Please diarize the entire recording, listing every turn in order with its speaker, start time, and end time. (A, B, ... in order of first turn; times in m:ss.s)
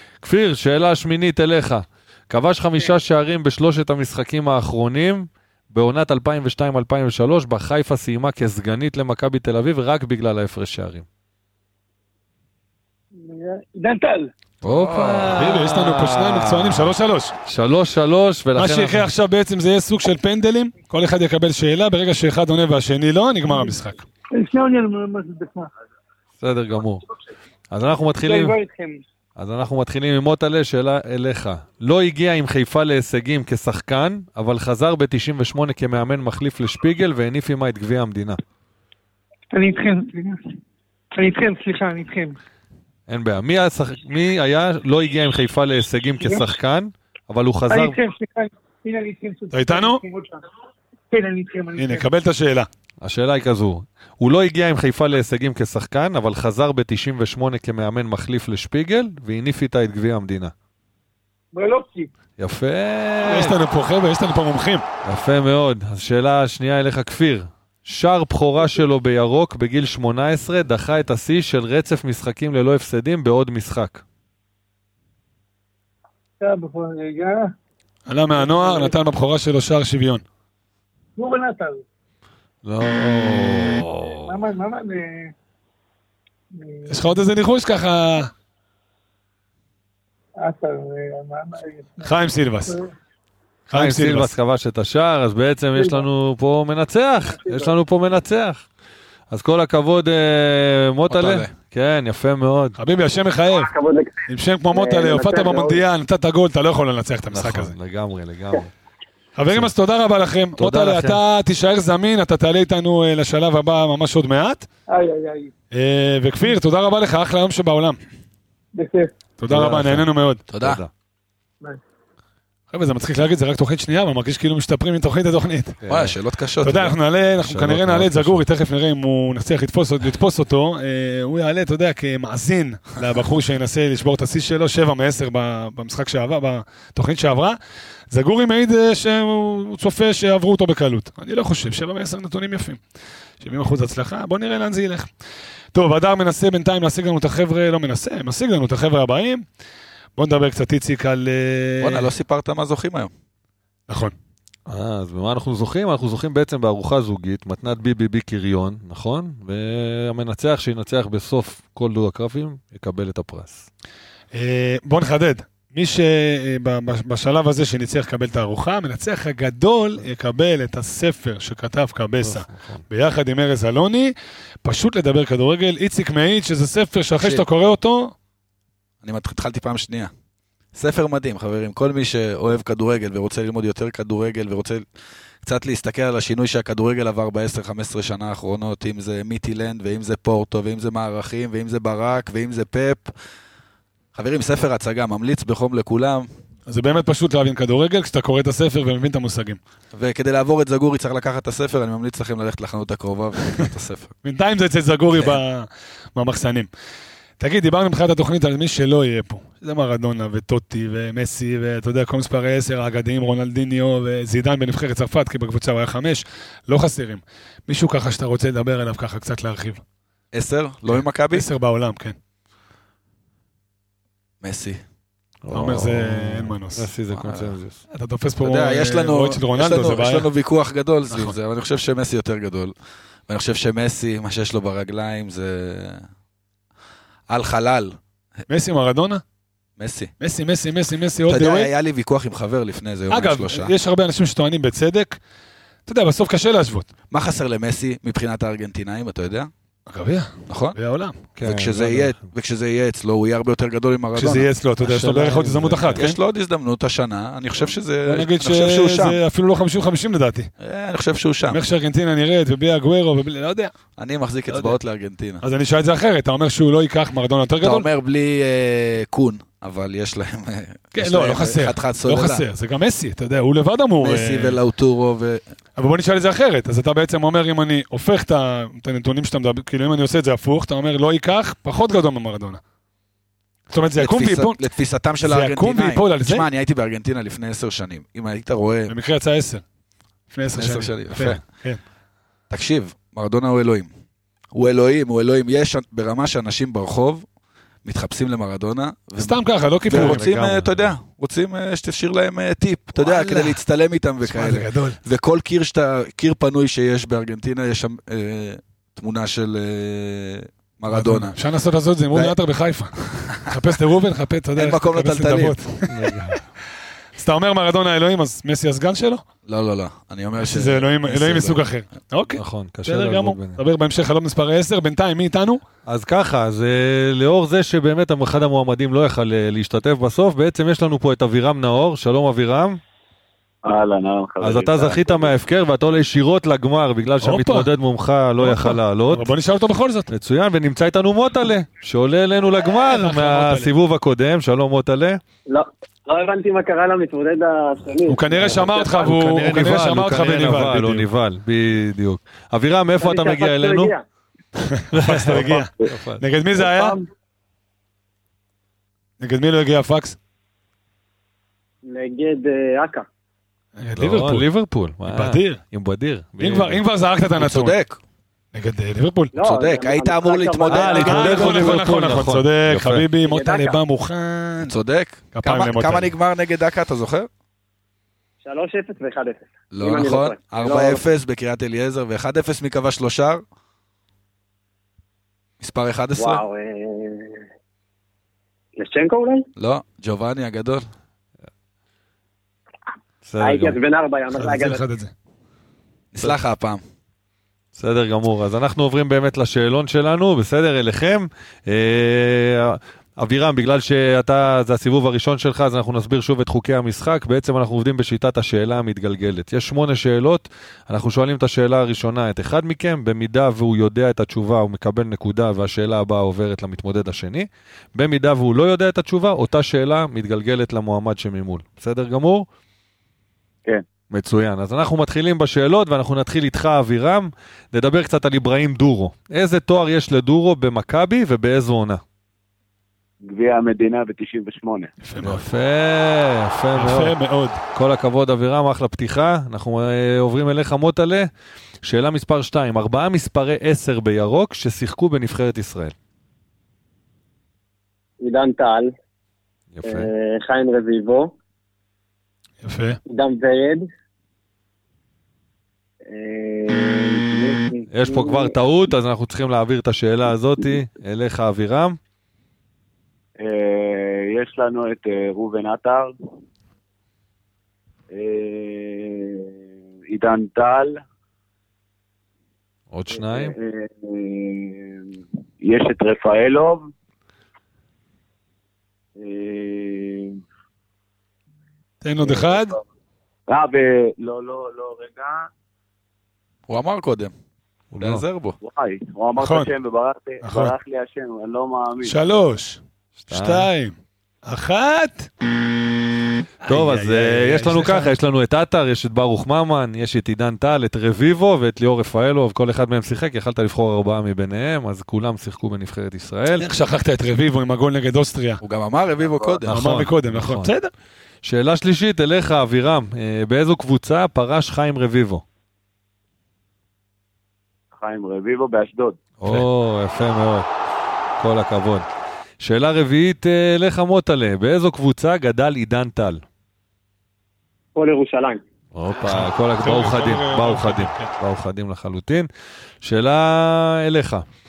0:00.2-0:11.0 A
0:13.2-0:14.3 B
0:14.6-0:15.4 C
0:14.6-0:16.9 A
0:15.3-0:17.3 D
0:17.4-0:19.1 A
0:18.6-0:24.0 D
0:23.5-0:23.8 B
0:24.3-0:25.7 B
0:26.4-0:27.1 A
0:27.7-0:28.5 A
0:28.2-0:29.0 B
0:29.4-0:38.4 A
0:39.5-0:40.6 B
0:41.1-0:42.4 B
0:43.1-0:48.0 A
0:47.7-0:50.4 B
0:49.5-0:50.0 D
0:51.1-0:52.1 B
0:51.8-0:52.7 D
0:53.0-1:00.5 A
1:01.5-1:02.1 B
1:02.4-1:03.6 A
1:03.2-1:04.8 D
1:05.0-1:14.0 A
1:16.4-1:17.5 B
1:18.1-1:20.2 D
1:18.4-1:18.9 B
1:21.2-1:21.8 B
1:22.6-1:24.4 A
1:24.2-1:25.3 B
1:26.5-1:27.2 B
1:26.9-1:28.3 D
1:30.4-1:32.2 B
1:32.0-1:32.8 D
1:33.7-1:34.3 D
1:33.7-1:38.6 A
1:35.7-1:36.0 B
1:37.3-1:37.7 B
1:39.3-1:42.8 A
1:41.1-1:41.5 C
1:42.8-1:43.7 D
1:43.5-1:45.8 E
1:44.3-1:47.7 D
1:47.3-1:48.7 A
1:49.4-1:54.6 D
1:50.6-1:51.2 A
1:54.9-1:55.5 B
1:55.7-1:58.0 D
1:58.7-1:59.1 B
1:59.4-2:00.4 D
1:59.5-2:00.9 A
2:00.5-2:00.8 C
2:02.7-2:05.8 D
2:05.8-2:06.1 A
2:05.9-2:07.0 C
2:06.6-2:17.6 D
2:07.4-2:08.4 A
2:18.1-2:22.8 D
2:23.4-2:25.1 D
2:25.7-2:29.4 D
2:30.2-2:32.1 D
2:31.8-2:33.1 C
2:33.9-2:34.1 D
2:34.7-2:43.7 A
2:44.3-2:58.1 D
2:52.2-2:52.8 A
2:57.2-2:57.4 C
2:59.0-3:00.1 C
3:00.7-3:04.8 C
3:05.4-3:13.1 C
3:14.1-3:16.3 C
3:16.7-3:19.6 D
3:19.9-3:24.1 C
3:24.2-3:26.7 D
3:27.4-3:39.8 D
3:40.3-3:41.5 C
3:40.9-3:42.2 D
3:44.4-3:44.8 C
3:45.4-3:47.8 A
3:45.5-3:46.9 D
3:47.1-3:47.5 C
3:47.9-3:50.3 D
3:48.4-3:52.7 C
3:53.3-3:56.1 C
3:57.3-3:58.0 C
3:58.5-3:59.2 D
3:59.8-4:00.1 C
4:00.2-4:01.7 D
4:01.2-4:03.7 C
4:03.1-4:05.2 D
4:05.8-4:06.9 D
4:07.1-4:09.5 C
4:09.9-4:11.2 D
4:10.5-4:10.8 C
4:11.4-4:12.3 A
4:11.4-4:19.2 C
4:14.2-4:16.2 D
4:14.9-4:16.0 A
4:18.1-4:20.5 D
4:20.6-4:21.6 C
4:21.5-4:23.7 D
4:24.0-4:25.4 C
4:25.4-4:27.9 D
4:27.6-4:32.4 C
4:31.0-4:34.6 D
4:34.0-4:35.4 C
4:35.8-4:42.6 D
4:43.7-4:44.6 D
4:43.9-4:49.0 C
4:45.2-4:46.4 D
4:48.9-4:49.6 D
4:50.3-4:51.8 D
4:50.6-4:51.4 C
4:52.5-4:53.9 C
4:54.5-4:57.2 C
4:57.8-5:11.4 C
4:59.2-5:00.5 D
4:59.9-5:00.8 A
5:03.0-5:03.6 D
5:04.2-5:05.0 D
5:10.9-5:16.1 D
5:12.1-5:12.4 C
5:14.5-5:15.6 C
5:15.9-5:16.4 A
5:17.2-5:19.2 D
5:19.4-5:21.6 C
5:20.4-5:25.6 D
5:22.4-5:23.6 A
5:25.8-5:32.8 A
5:33.6-5:35.3 F
5:34.4-5:39.3 A
5:37.2-5:37.7 D
5:38.4-5:40.1 D
5:40.1-5:45.2 A
5:42.8-5:43.7 D
5:45.5-5:49.1 E
5:48.1-5:51.0 D
5:49.0-5:53.9 A
5:53.0-5:54.0 E
5:54.7-5:57.0 D
5:54.9-5:56.2 A
5:56.6-5:57.0 E
5:59.2-6:00.2 D
6:01.8-6:03.1 E
6:03.8-6:04.5 D
6:04.0-6:06.8 A
6:05.1-6:05.6 D
6:06.4-6:07.7 D
6:07.4-6:08.0 C
6:08.5-6:09.3 D
6:09.3-6:11.7 E
6:09.4-6:11.7 C
6:10.7-6:14.7 D
6:10.9-6:13.1 A
6:13.2-6:13.8 E
6:14.6-6:17.3 C
6:15.3-6:16.1 D
6:18.4-6:21.0 E
6:19.7-6:23.4 C
6:25.6-6:26.4 C
6:26.2-6:27.4 E
6:28.8-6:29.5 E
6:29.6-6:30.8 C
6:33.2-6:33.8 A
6:33.4-6:34.8 E
6:34.3-6:35.1 D
6:36.1-6:36.8 C
6:37.7-7:02.5 A
7:04.1-7:12.0 A
7:13.2-7:14.9 F
7:15.0-7:15.4 D
7:15.2-7:17.1 A
7:16.8-7:17.6 D
7:17.7-7:21.3 A
7:21.8-7:25.9 A
7:28.2-7:28.9 E
7:29.7-7:30.1 A
7:29.8-7:31.3 E
7:32.6-7:33.0 D
7:33.1-7:33.9 E
7:36.1-7:38.5 E
7:37.9-7:42.0 A
7:43.4-7:46.1 F
7:48.1-7:49.5 F
7:50.1-7:51.0 F
7:52.9-7:53.6 A
7:53.1-7:56.9 F
7:59.2-8:00.4 F
8:02.0-8:02.8 D
8:02.2-8:02.8 F
8:03.5-8:05.5 F
8:06.7-8:07.3 C
8:07.9-8:08.2 A
8:08.0-8:08.6 C
8:08.6-8:12.2 F
8:09.4-8:09.7 D
8:10.4-8:10.7 D
8:12.0-8:13.9 D
8:13.3-8:13.7 A
8:14.4-8:15.3 D
8:16.6-8:18.1 D
8:16.7-8:26.7 A
8:26.6-8:28.6 D
8:28.6-8:29.7 C
8:29.2-8:29.6 F
8:29.7-8:30.7 A
8:29.7-8:30.9 D
8:31.4-8:35.4 A
8:37.9-8:39.2 F
8:39.4-8:40.7 A
8:41.4-8:42.0 A
8:42.6-8:46.4 A
8:47.9-8:48.6 E
8:48.9-8:52.5 A
8:49.2-8:51.3 D
8:53.0-8:54.4 A